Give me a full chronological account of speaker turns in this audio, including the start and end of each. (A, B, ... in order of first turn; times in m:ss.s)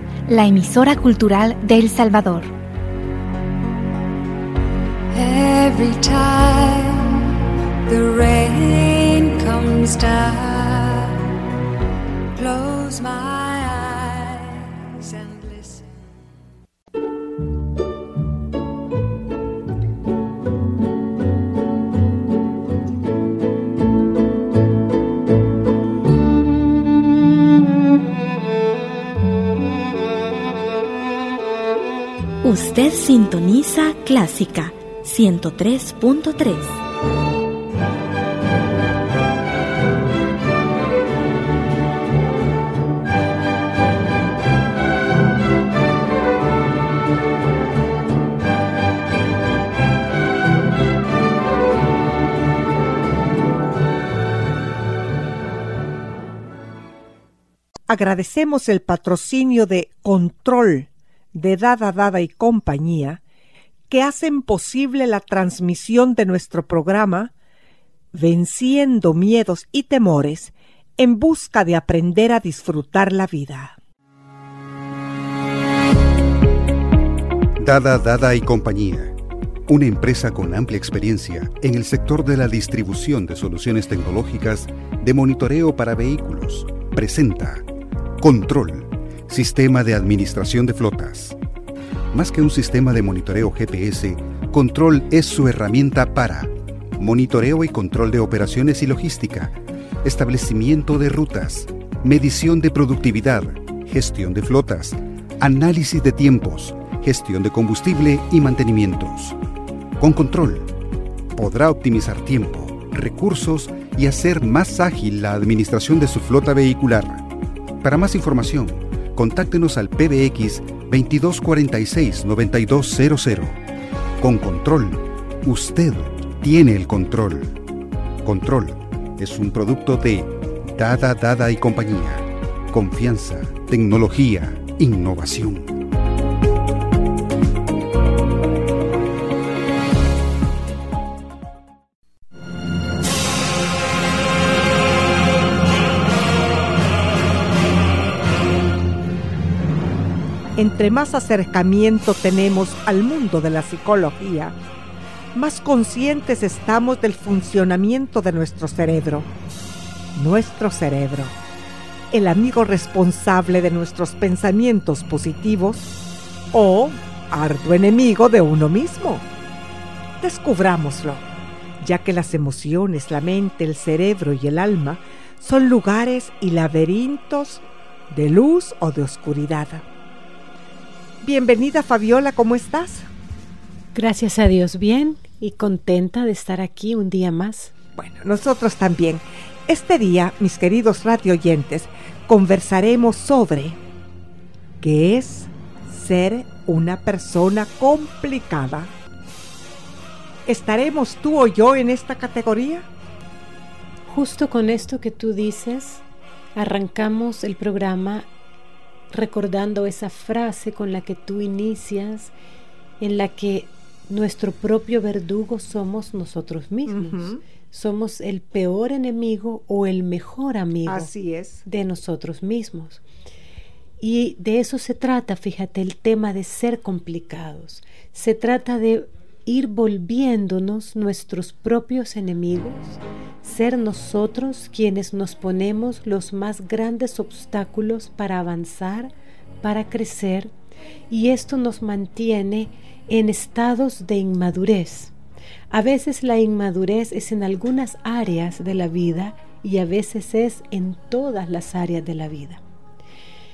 0:00.3-0:02.5 A
0:05.1-0:07.3 B
0:07.8-0:11.2 B
0:12.3-0:16.0 B
0:32.4-0:36.8 C
0:57.9-1:03.2 D
1:03.9-1:07.3 D
1:08.1-1:13.8 D
1:17.6-1:19.2 E
1:19.7-1:27.6 E
1:28.2-1:31.4 E
1:32.1-1:49.4 E
1:50.0-1:50.8 E
1:51.3-2:03.6 E
2:04.2-2:07.6 E
2:08.2-2:15.8 E
2:30.6-2:34.6 D
2:35.4-2:39.3 D
2:40.2-2:41.4 D
2:42.1-2:45.9 D
2:46.5-2:49.3 D
2:50.2-2:51.3 D
2:51.8-2:59.8 D
3:01.2-3:03.1 D
3:03.9-3:07.7 F
3:08.0-3:13.8 D
3:14.8-3:18.9 D
3:20.5-3:22.9 D
3:24.1-3:26.0 F
3:26.6-3:28.3 F
3:29.1-3:32.3 F
3:33.0-3:41.1 F
3:36.9-3:37.4 D
3:40.9-3:41.6 D
3:41.6-3:43.0 F
3:44.0-3:59.1 F
3:59.6-4:00.5 F
4:01.1-4:05.1 F
4:05.7-4:12.6 F